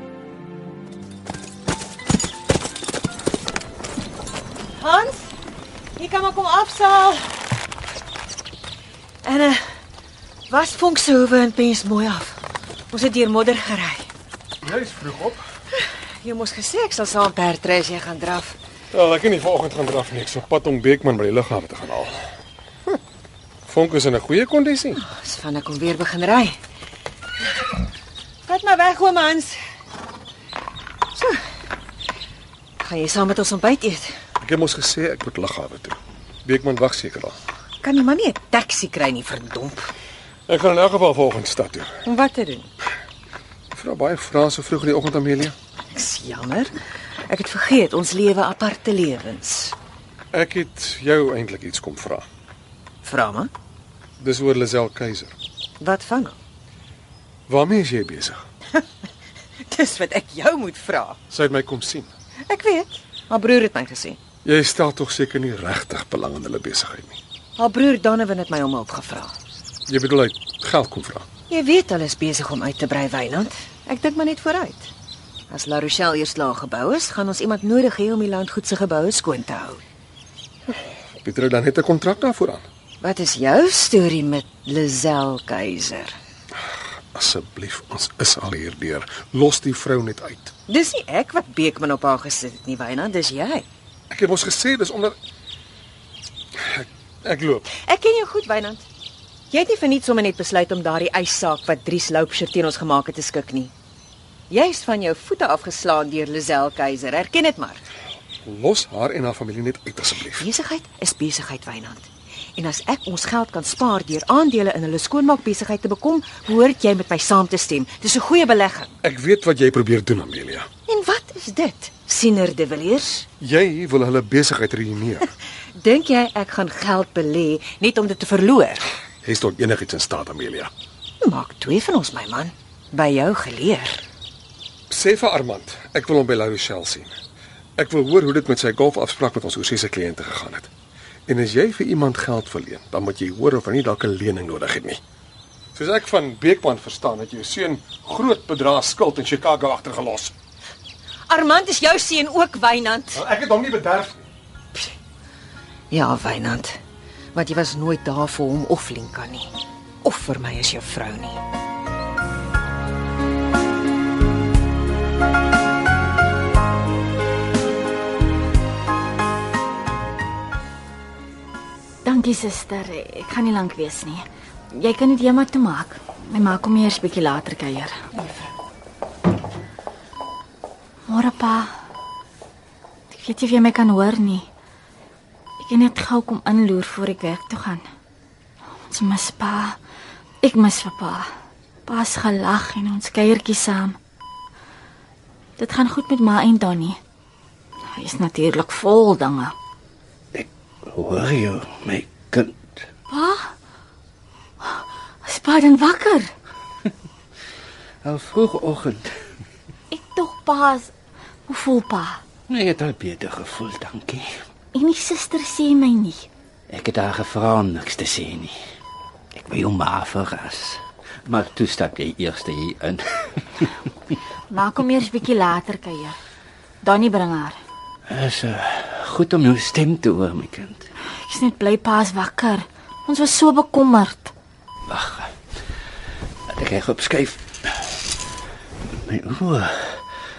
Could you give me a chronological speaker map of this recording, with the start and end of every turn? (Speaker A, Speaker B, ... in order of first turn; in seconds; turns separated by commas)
Speaker A: 4.8-5.3, Speaker A: 6.0-7.2, Speaker A: 9.2-9.6, Speaker A: 10.5-12.4, Speaker A: 12.9-14.1, Speaker B: 14.6-15.4, Speaker A: 16.2-18.6, Speaker B: 18.9-22.2, Speaker B: 23.7-25.0, Speaker A: 25.0-26.6, Speaker A: 28.5-29.6, Speaker A: 32.8-34.1, Speaker B: 34.4-37.4, Speaker A: 37.8-39.9, Speaker B: 40.5-42.0, Speaker A: 42.0-42.7, Speaker B: 43.7-45.5, Speaker A: 45.9-49.8, Speaker B: 50.3-52.3, Speaker A: 53.0-53.5, Speaker B: 54.2-55.4, Speaker A: 55.8-56.4, Speaker B: 57.5-58.4, Speaker A: 59.7-61.2, Speaker B: 61.3-62.1, Speaker A: 62.5-64.2, Speaker B: 64.4-67.2, Speaker A: 67.6-69.3, Speaker B: 69.9-71.3, Speaker A: 71.5-74.9, Speaker A: 75.5-79.8, Speaker B: 81.2-82.6, Speaker A: 83.0-86.2, Speaker B: 87.1-90.5, Speaker A: 90.7-93.7, Speaker B: 94.1-95.2, Speaker B: 96.6-97.7, Speaker A: 97.8-98.8, Speaker A: 99.5-103.7, Speaker A: 104.5-107.8, Speaker B: 108.5-110.5, Speaker A: 110.4-119.0, Speaker B: 119.0-120.7, Speaker A: 120.9-123.3, Speaker B: 123.4-125.3, Speaker A: 125.8-128.9, Speaker B: 129.2-130.7, Speaker A: 131.2-134.0, Speaker B: 134.9-137.1, Speaker B: 137.8-140.7, Speaker B: 141.3-145.0, Speaker B: 145.8-150.3, Speaker A: 151.3-153.2, Speaker B: 153.1-154.2, Speaker A: 155.9-156.8, Speaker A: 157.3-161.4, Speaker C: 172.0-178.0, Speaker C: 181.1-181.8, Speaker C: 183.1-184.5, Speaker C: 185.6-187.9, Speaker C: 188.9-189.8, Speaker C: 190.4-191.3, Speaker C: 191.8-194.0, Speaker C: 195.6-197.0, Speaker C: 197.9-199.6, Speaker D: 200.3-202.8, Speaker C: 203.1-203.5, Speaker C: 204.6-206.3, Speaker D: 208.0-209.2, Speaker C: 209.9-210.9, Speaker C: 211.5-212.2, Speaker D: 212.5-214.3, Speaker C: 214.7-216.3, Speaker D: 216.7-218.6, Speaker D: 219.3-223.7, Speaker C: 224.5-226.2, Speaker C: 226.8-227.6, Speaker D: 228.1-230.9, Speaker C: 231.2-234.3, Speaker D: 234.9-235.3, Speaker D: 236.5-237.7, Speaker D: 239.1-240.0